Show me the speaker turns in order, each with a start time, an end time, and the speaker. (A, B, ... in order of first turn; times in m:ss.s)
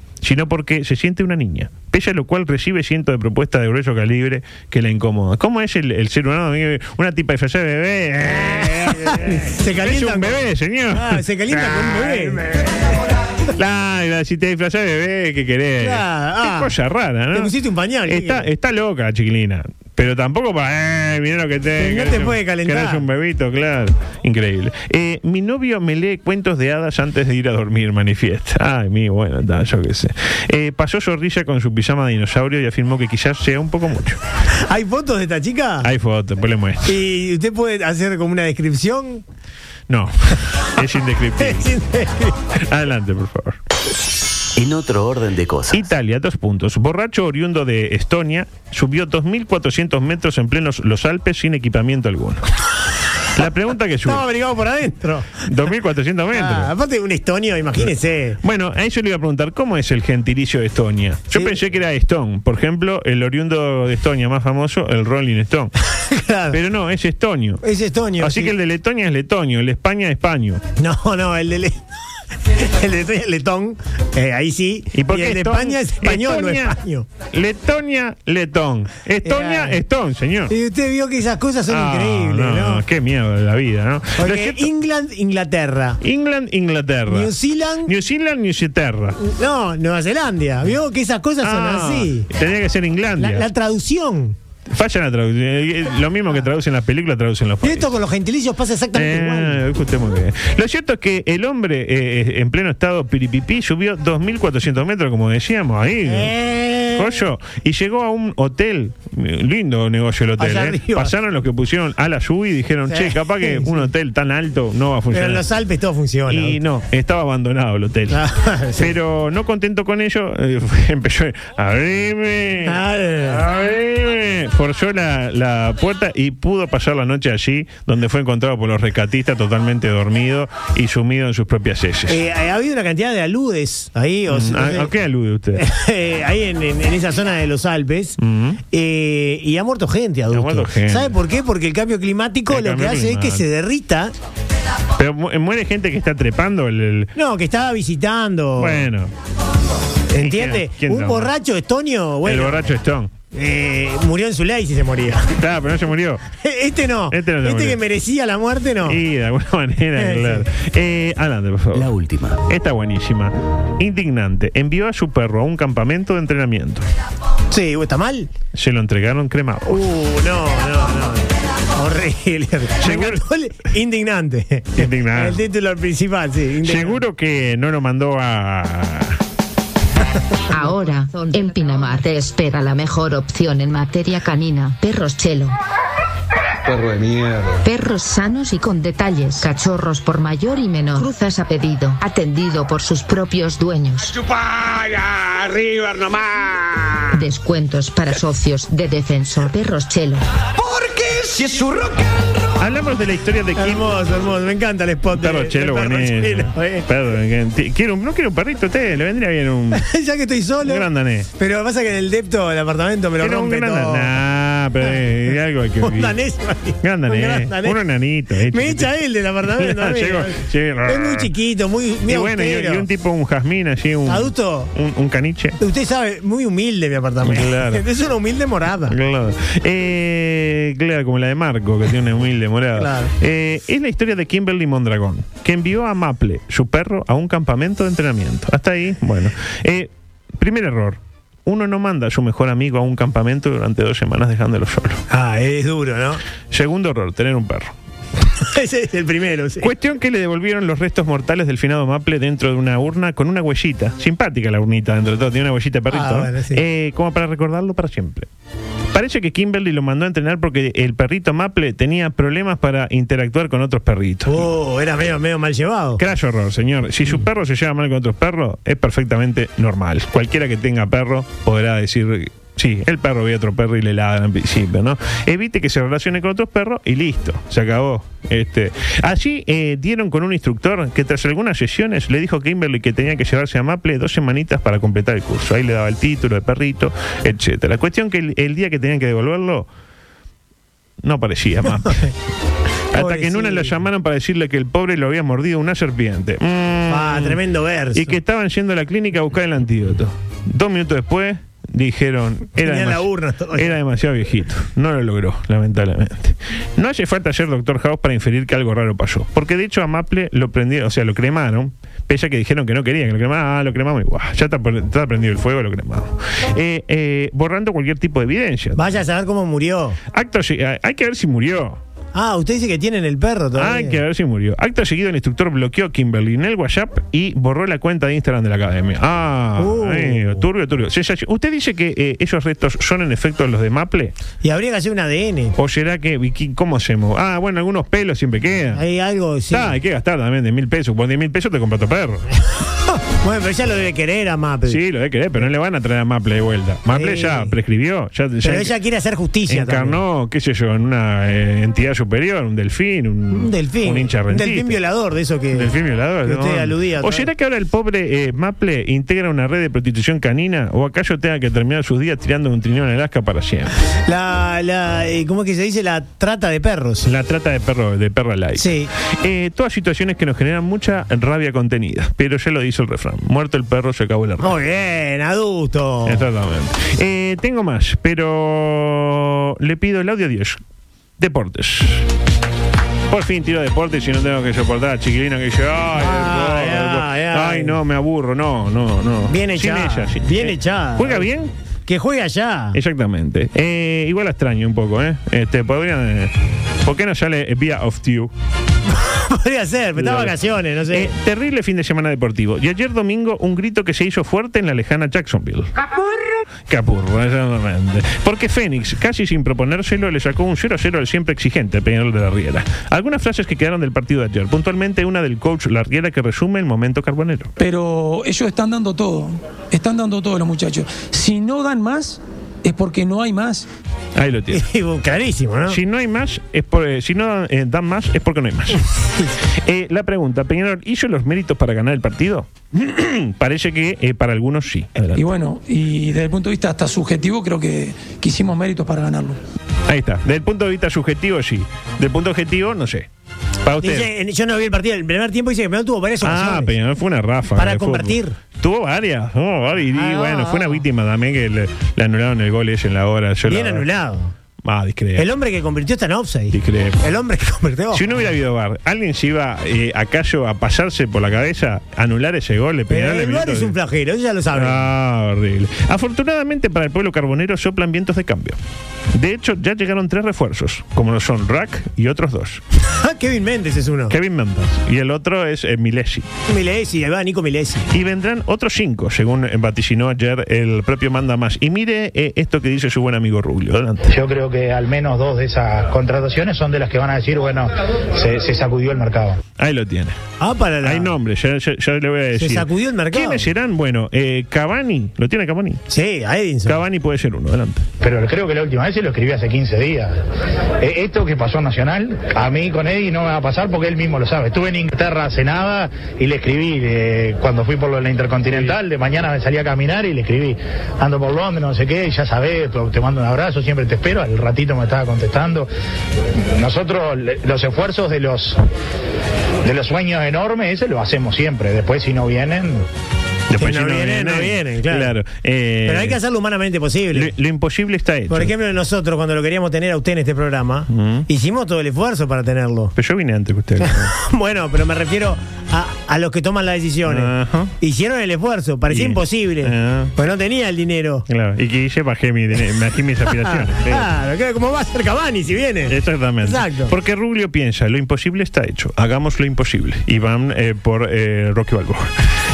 0:00.2-0:12.5 A
0:08.2-0:12.8 B
0:13.6-0:17.5 A
0:15.8-0:16.7 B
0:17.3-0:18.5 B
0:18.1-0:34.2 A
0:21.8-0:23.0 B
0:34.7-0:35.9 B
0:35.8-0:37.0 A
0:36.8-0:39.2 B
0:39.9-0:41.8 A
0:41.4-0:42.4 B
0:42.5-0:43.6 A
0:44.6-0:45.8 C
0:45.7-0:52.5 A
0:53.3-0:54.3 A
0:54.0-0:55.4 B
0:55.4-0:56.7 A
0:56.3-0:58.4 B
0:58.4-1:05.7 A
1:06.0-1:06.6 B
1:06.5-1:07.6 A
1:07.6-1:08.6 B
1:08.2-1:10.6 A
1:10.8-1:11.9 B
1:12.5-1:17.1 B
1:14.9-1:16.8 A
1:17.3-1:20.5 A
1:19.2-1:19.8 B
1:20.5-1:22.8 B
1:21.7-1:24.7 A
1:24.2-1:26.0 B
1:26.0-1:27.3 A
1:27.1-1:27.9 B
1:27.8-1:29.2 A
1:29.2-1:32.3 B
1:31.4-1:33.5 A
1:33.2-1:34.4 B
1:34.7-1:37.9 A
1:37.6-1:39.6 B
1:38.9-1:46.3 A
1:46.1-1:47.2 B
1:46.9-1:55.5 A
1:50.4-1:51.1 B
1:52.9-1:53.9 B
1:55.1-1:56.6 B
1:56.3-2:12.2 A
1:58.1-1:59.0 B
2:02.6-2:03.5 B
2:12.1-2:14.9 B
2:14.3-2:15.6 A
2:15.6-2:18.2 B
2:18.2-2:18.6 A
2:18.7-2:24.1 B
2:20.3-2:21.2 A
2:22.5-2:23.5 A
2:25.0-2:27.1 A
2:27.2-2:28.9 B
2:28.6-2:29.1 A
2:30.1-2:32.6 B
2:30.2-2:31.3 A
2:32.2-2:33.1 A
2:33.3-2:35.3 B
2:35.4-2:36.2 A
2:36.4-2:39.0 B
2:37.1-2:37.8 A
2:38.8-2:41.9 A
2:40.0-2:40.5 B
2:41.7-2:42.4 C
2:42.4-2:46.9 A
2:47.5-2:48.3 B
2:48.5-2:49.9 A
2:49.7-2:57.0 B
2:52.8-2:53.2 A
2:54.8-2:55.4 A
2:56.6-2:59.2 A
3:00.5-3:05.6 D
3:06.6-3:07.6 E
3:07.6-3:14.1 D
3:14.2-3:17.0 E
3:17.1-3:20.2 D
3:20.6-3:22.3 E
3:22.6-3:24.0 A
3:23.6-3:26.9 B
3:25.1-3:29.9 A
3:29.7-3:34.1 B
3:30.6-3:31.3 A
3:33.2-3:36.2 A
3:35.8-3:37.8 B
3:36.8-3:41.3 A
3:38.5-3:42.9 B
3:42.1-3:45.6 A
3:44.1-3:44.7 B
3:45.6-3:49.0 B
3:47.2-3:47.8 A
3:48.9-4:05.0 A
3:52.8-3:53.1 B
4:05.1-4:06.2 B
4:06.5-4:07.7 A
4:08.3-4:09.7 B
4:09.6-4:18.3 A
4:15.9-4:16.6 B
4:18.9-4:24.5 A
4:24.3-4:26.0 B
4:26.0-4:49.7 A
4:51.0-4:52.1 A
4:52.9-4:57.4 A
4:52.9-4:53.8 B
4:56.9-4:58.2 B
4:57.9-5:18.9 A
5:02.6-5:03.8 B
5:18.8-5:20.0 B
5:20.1-5:21.8 A
5:22.1-5:24.0 B
5:23.6-5:34.2 A
5:29.6-5:30.5 B
5:34.4-5:35.6 B
5:35.6-5:38.8 A
5:38.7-5:39.8 B
5:39.5-5:42.3 A
5:42.7-5:44.8 B
5:44.6-5:48.7 A
5:46.9-5:47.5 B
5:48.4-5:50.0 B
5:49.5-5:54.8 A
5:53.3-5:55.7 B
5:55.5-6:03.8 A
5:56.2-5:57.3 B
6:04.1-6:07.1 B
6:07.0-6:14.6 A
6:08.6-6:08.9 B
6:14.4-6:16.2 B
6:16.1-6:20.6 A
6:21.2-6:22.1 A
6:23.1-6:31.5 A
6:26.0-6:27.8 B
6:29.3-6:31.3 B
6:31.9-6:32.8 B
6:32.7-6:38.3 A
6:38.9-6:41.1 B
6:40.0-6:45.7 A
6:46.7-6:57.5 A
6:57.6-7:03.7 F
7:04.2-7:04.7 A
7:04.5-7:05.8 B
7:05.7-7:08.9 A
7:09.4-7:15.3 A
7:15.2-7:19.4 F
7:19.9-7:23.1 A
7:23.6-7:24.1 A
7:23.8-7:26.7 B
7:26.2-7:33.9 A
7:27.6-7:28.4 B
7:29.9-7:30.8 B
7:33.5-7:34.3 B
7:34.6-7:35.3 A
7:35.2-7:38.1 B
7:36.5-7:37.0 A
7:37.9-7:43.8 A
7:42.9-7:44.9 B
7:44.5-7:48.6 A
7:49.1-7:52.6 A
7:52.8-7:54.2 B
7:54.1-7:56.3 A
7:56.5-7:57.9 B
7:57.9-8:04.1 A
8:04.1-8:09.4 G
8:09.6-8:10.2 A
8:10.4-8:11.1 B
8:10.8-8:15.8 A
8:12.4-8:13.5 B
8:15.9-8:16.8 B
8:16.7-8:17.9 A
8:18.0-8:20.2 G
8:20.8-8:35.7 G
8:36.4-8:38.6 G
8:39.6-8:42.9 G
8:43.5-8:46.2 A
8:43.6-8:45.1 B
8:45.8-8:47.3 B
8:47.1-8:48.5 A
8:48.3-8:53.0 B
8:50.9-8:51.3 A
8:53.0-8:54.1 A
8:53.8-9:01.3 B
8:57.0-8:57.7 A
8:58.9-9:00.1 A
9:01.3-9:04.1 A
9:03.3-9:06.9 B
9:05.9-9:12.3 A